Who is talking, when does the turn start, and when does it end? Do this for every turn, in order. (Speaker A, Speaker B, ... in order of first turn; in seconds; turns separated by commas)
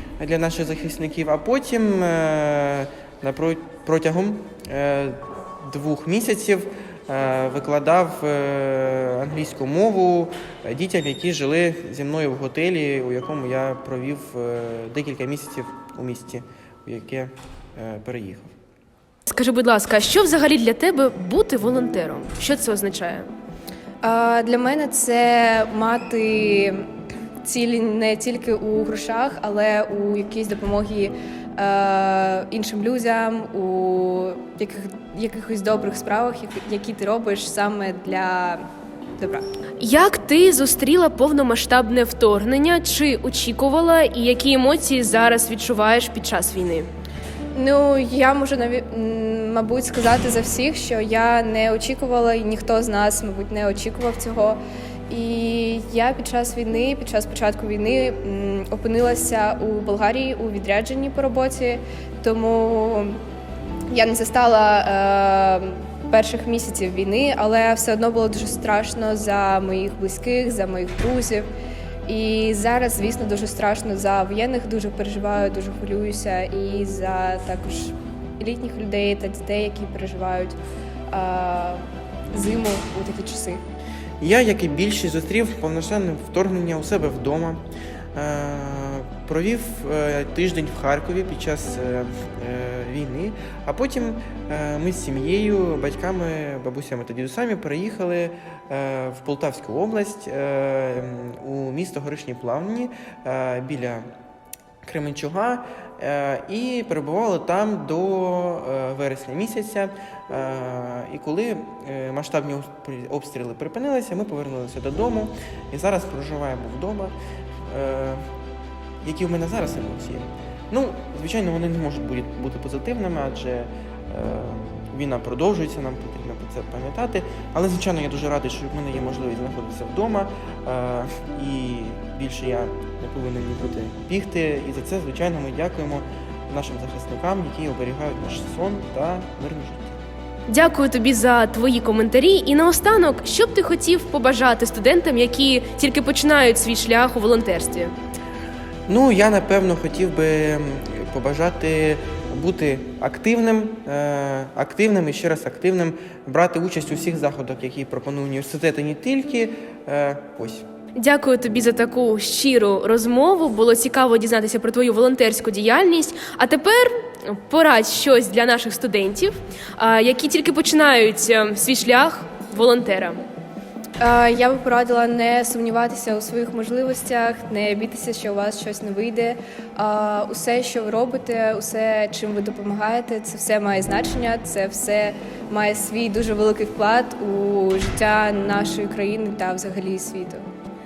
Speaker A: 0.2-18.5, Speaker B: 19.2-23.3, Speaker C: 24.0-26.8, Speaker C: 27.4-38.6, Speaker C: 39.2-39.5, Speaker B: 39.8-46.9, Speaker C: 47.5-54.6, Speaker C: 55.1-63.2, Speaker C: 63.9-71.5, Speaker C: 72.1-80.6, Speaker C: 81.1-83.6, Speaker A: 84.2-87.6, Speaker A: 88.1-104.0, Speaker A: 104.8-117.1, Speaker A: 117.7-118.2, Speaker A: 119.0-140.0, Speaker B: 140.5-147.9, Speaker A: 148.9-160.7, Speaker B: 160.9-173.2, Speaker C: 174.0-190.4